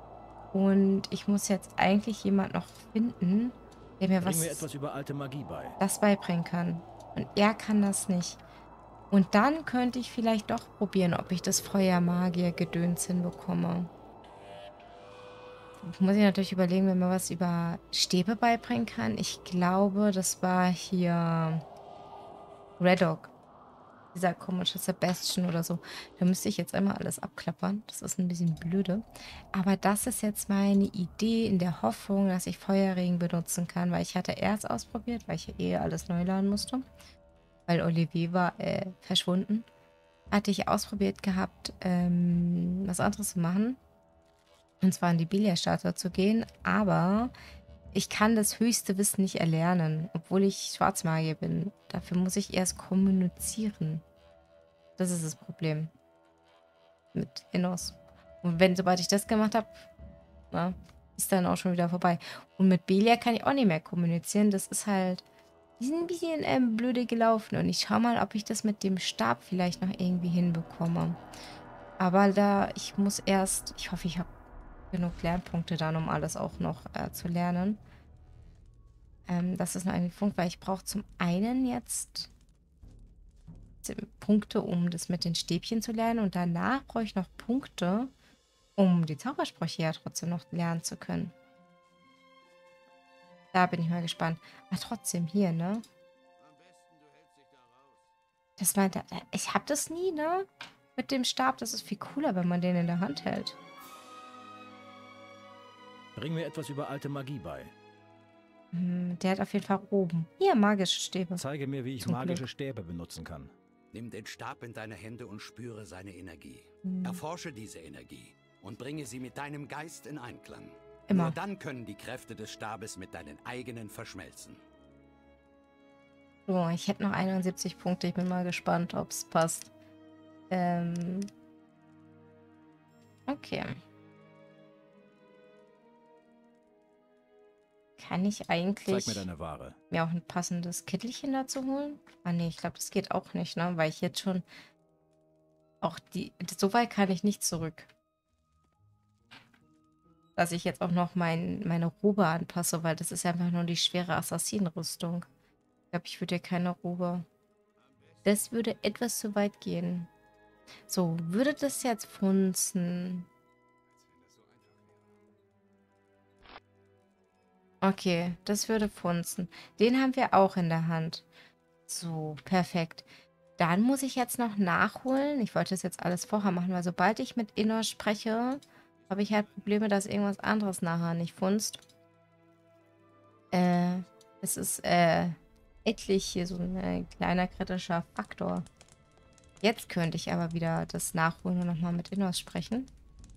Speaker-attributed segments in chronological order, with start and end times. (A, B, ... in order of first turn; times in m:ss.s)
0:00.5-0:04.7 A
0:04.2-0:05.8 B
0:05.8-0:08.4 A
0:09.1-0:13.9 A
0:15.8-0:21.6 A
0:22.8-0:23.3 A
0:24.1-0:36.9 A
0:37.7-0:39.7 A
0:40.3-0:43.8 A
0:44.8-0:47.3 A
0:47.9-0:54.0 A
0:55.0-0:55.9 A
0:57.1-0:59.9 A
1:00.5-1:05.2 A
1:05.8-1:11.2 A
1:12.0-1:14.3 A
1:14.9-1:17.8 A
1:19.3-1:22.3 A
1:23.8-1:28.1 A
1:28.8-1:31.3 A
1:33.5-1:35.8 A
1:36.4-1:38.0 C
1:38.6-1:43.6 A
1:46.1-1:47.7 B
1:48.7-1:51.4 A
1:51.4-1:53.5 B
1:52.0-1:52.4 A
1:53.9-2:04.6 C
1:56.8-1:57.2 A
2:01.1-2:01.4 A
2:06.5-2:09.7 A
2:10.5-2:11.3 A
2:13.3-2:13.8 A
2:18.0-2:19.3 A
2:18.9-2:19.8 B
2:19.9-2:24.4 A
2:25.8-2:27.9 A
2:30.4-2:35.3 A
2:35.9-2:37.3 A
2:38.2-2:40.1 A
2:40.9-2:43.3 A
2:44.0-2:45.1 C
2:47.8-2:51.2 A
2:51.9-2:53.1 A
2:53.6-3:01.8 A
3:03.5-3:08.6 A
3:09.6-3:12.9 A